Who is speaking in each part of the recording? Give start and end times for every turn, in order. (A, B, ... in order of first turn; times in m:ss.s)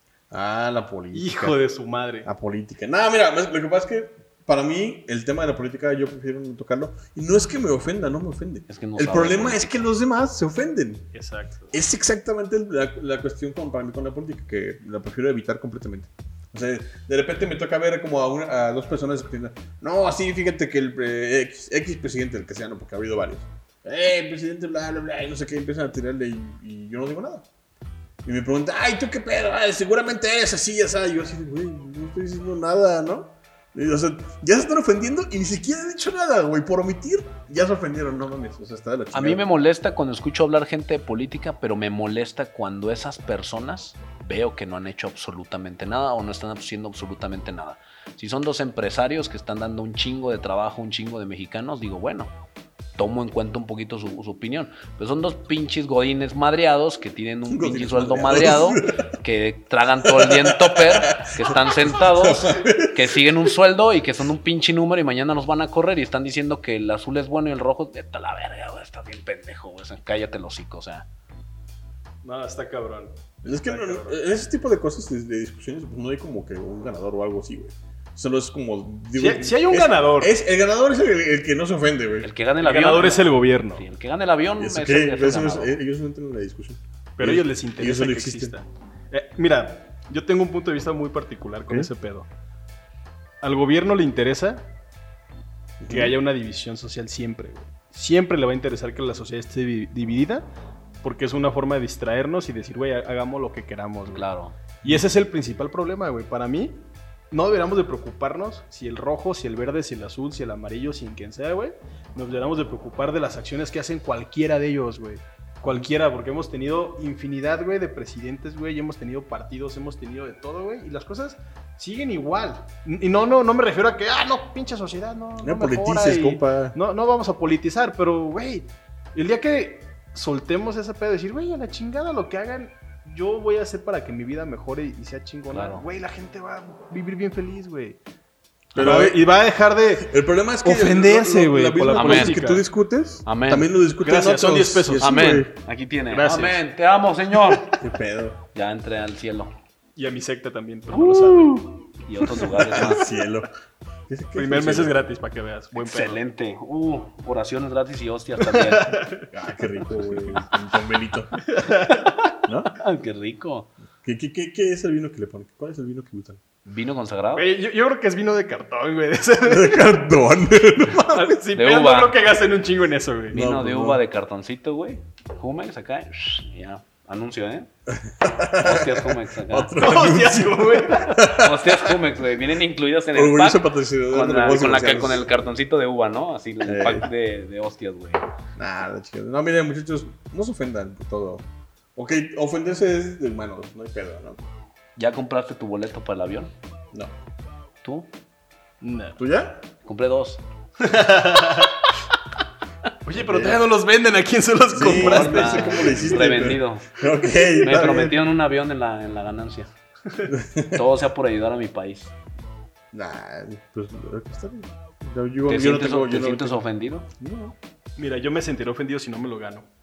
0:00.3-0:01.6 A
0:01.1-0:02.3 B
0:02.2-0:11.1 A
0:08.7-0:09.9 C
0:11.1-0:11.7 B
0:11.7-0:27.4 A
0:28.2-0:39.4 A
0:39.1-0:52.3 C
0:53.0-1:11.1 C
0:57.5-0:59.0 A
1:00.0-1:03.5 A
1:12.2-1:14.2 B
1:13.4-1:22.3 A
1:19.2-1:20.3 B
1:22.2-1:25.7 C
1:22.6-1:23.8 B
1:24.6-1:28.5 A
1:27.2-1:32.3 B
1:33.4-1:34.6 B
1:35.8-1:36.2 A
1:35.9-1:40.4 B
1:41.0-1:44.3 B
1:44.1-1:44.6 C
1:44.8-1:46.8 B
1:47.3-2:18.0 B
2:05.4-2:06.8 A
2:15.5-2:15.8 C
2:18.7-2:22.6 B
2:18.7-2:19.2 A
2:20.0-2:25.5 A
2:21.9-2:22.4 C
2:23.2-2:23.7 C
2:24.0-2:25.2 B
2:25.0-2:27.8 C
2:26.1-2:26.6 B
2:27.7-2:28.4 A
2:28.5-2:29.5 C
2:30.0-2:31.7 B
2:30.9-2:33.1 C
2:32.4-2:33.5 A
2:34.1-2:34.9 A
2:34.4-2:36.2 B
2:35.7-2:39.0 C
2:38.4-2:39.3 B
2:39.3-2:41.4 A
2:41.4-2:42.1 B
2:41.9-2:43.7 C
2:42.4-2:42.7 A
2:44.0-2:46.4 A
2:46.6-2:47.5 C
2:47.4-2:50.0 B
2:49.4-2:51.3 A
2:51.1-2:53.4 B
2:51.5-2:52.2 C
2:53.3-2:54.0 A
2:53.3-2:57.7 C
2:57.9-3:02.0 A
2:58.6-2:59.7 C
2:59.8-3:01.2 B
3:01.2-3:08.2 C
3:03.1-3:05.3 A
3:06.6-3:07.1 A
3:08.6-3:11.4 A
3:11.9-3:14.4 A
3:15.0-3:16.5 C
3:17.8-3:18.1 C
3:18.8-3:19.2 B
3:19.2-3:19.6 A
3:19.8-3:20.4 C
3:20.8-3:21.8 B
3:23.0-3:26.1 B
3:23.2-3:23.6 A
3:24.7-3:28.2 A
3:24.8-3:26.9 C
3:27.5-3:29.7 C
3:30.2-3:30.9 A
3:30.7-3:32.1 C
3:32.9-3:36.6 A
3:35.5-3:37.1 C
3:37.2-3:37.6 A
3:38.0-3:39.7 B